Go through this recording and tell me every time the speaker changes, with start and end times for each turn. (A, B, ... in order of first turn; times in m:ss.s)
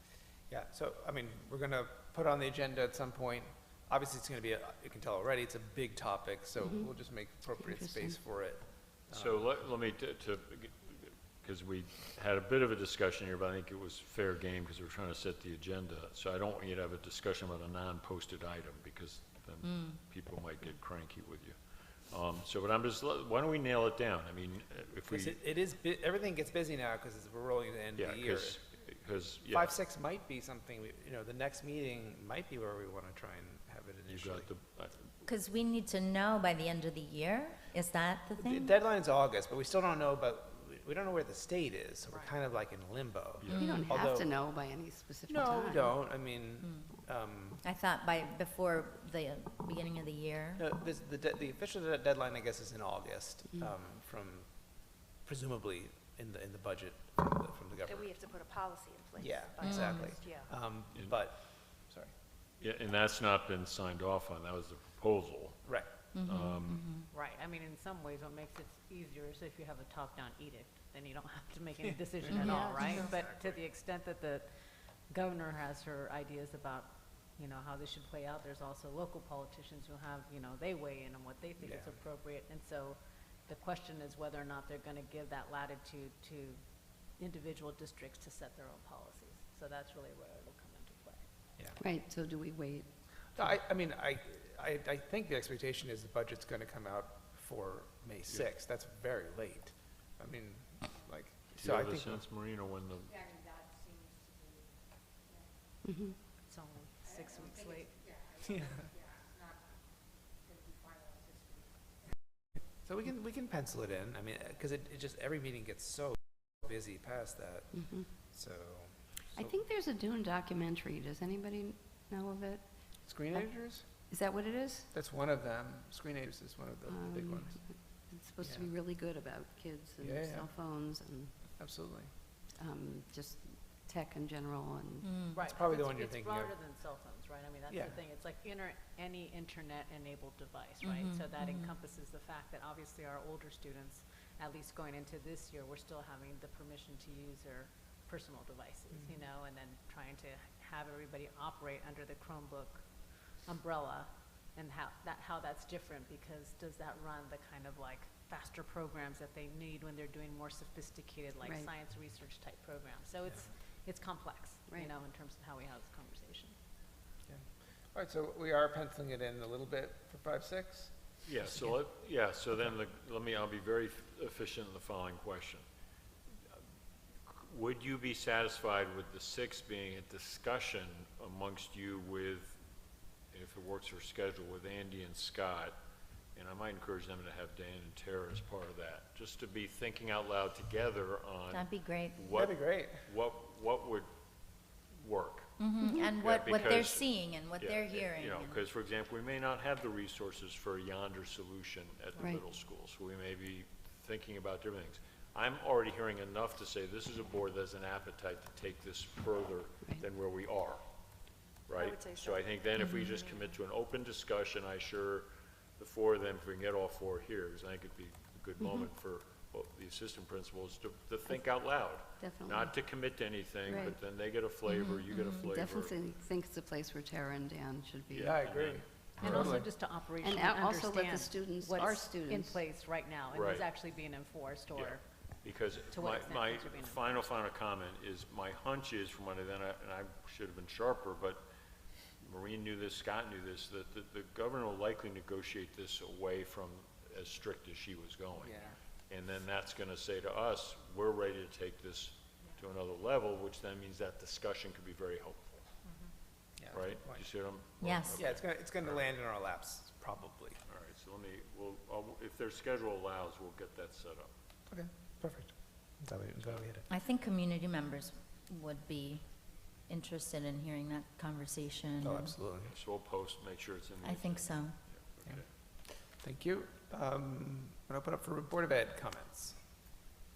0:00.5-0:09.5 A
0:06.6-0:06.9 B
0:07.6-0:08.2 B
0:09.1-0:21.5 C
0:19.6-0:20.0 D
0:22.1-0:25.4 C
0:25.1-0:28.6 A
0:28.0-0:29.8 C
0:29.5-0:34.5 A
0:34.1-0:35.1 C
0:35.2-0:38.7 D
0:38.4-0:44.3 A
0:43.4-0:43.6 C
0:43.5-0:43.9 D
0:43.5-0:46.0 B
0:45.3-0:47.6 A
0:46.6-0:46.9 D
0:47.6-0:50.6 D
0:50.6-0:58.1 A
0:57.8-1:00.5 E
0:59.2-1:02.1 A
0:59.6-1:00.2 D
1:02.6-1:05.7 C
1:06.1-1:07.1 D
1:06.2-1:06.8 C
1:07.1-1:14.5 F
1:12.4-1:13.1 D
1:12.6-1:12.9 B
1:15.1-1:26.6 F
1:21.6-1:21.9 A
1:27.2-1:31.2 F
1:31.8-1:32.9 B
1:33.3-1:42.2 A
1:41.6-1:43.3 C
1:45.8-1:46.1 B
1:46.5-1:47.9 F
1:52.8-1:59.5 A
1:59.4-2:03.5 B
2:03.0-2:03.9 A
2:04.1-2:04.9 B
2:04.9-2:07.6 A
2:06.9-2:11.6 B
2:08.4-2:08.7 A
2:10.0-2:10.4 A
2:11.6-2:12.1 A
2:12.5-2:15.1 B
2:15.0-2:15.4 D
2:15.3-2:32.8 F
2:15.4-2:16.5 A
2:17.7-2:18.0 A
2:20.8-2:21.7 D
2:33.4-2:46.5 F
2:41.4-2:41.7 B
2:47.3-2:50.9 A
2:51.2-2:55.6 C
2:57.3-3:02.6 C
3:03.3-3:05.8 C
3:06.3-3:14.1 C
3:11.5-3:12.2 D
3:12.3-3:13.1 A
3:15.0-3:30.8 C
3:15.6-3:18.6 D
3:22.2-3:22.4 B
3:31.7-3:35.3 C
3:31.7-3:33.6 E
3:32.8-3:33.1 D
3:35.8-3:46.0 C
3:38.6-3:38.9 B
3:42.2-3:42.8 B
3:43.7-3:44.0 B
3:44.6-3:45.5 D
3:45.4-3:48.4 B
3:48.1-3:48.8 C
3:48.2-3:49.7 A
3:49.2-3:55.0 F
3:50.2-3:52.6 B
3:53.3-3:53.6 C
3:54.7-4:01.4 C
3:55.9-3:57.3 F
4:02.2-4:15.7 C
4:08.4-4:08.8 A
4:16.6-4:17.2 A
4:16.7-4:19.0 C
4:17.8-4:18.2 D
4:18.1-4:20.6 A
4:20.7-4:24.3 C
4:24.7-4:26.9 A
4:26.9-4:29.2 D
4:29.9-4:32.3 D
4:32.0-4:32.7 A
4:32.6-4:35.5 C
4:34.0-4:34.7 D
4:36.0-4:39.6 A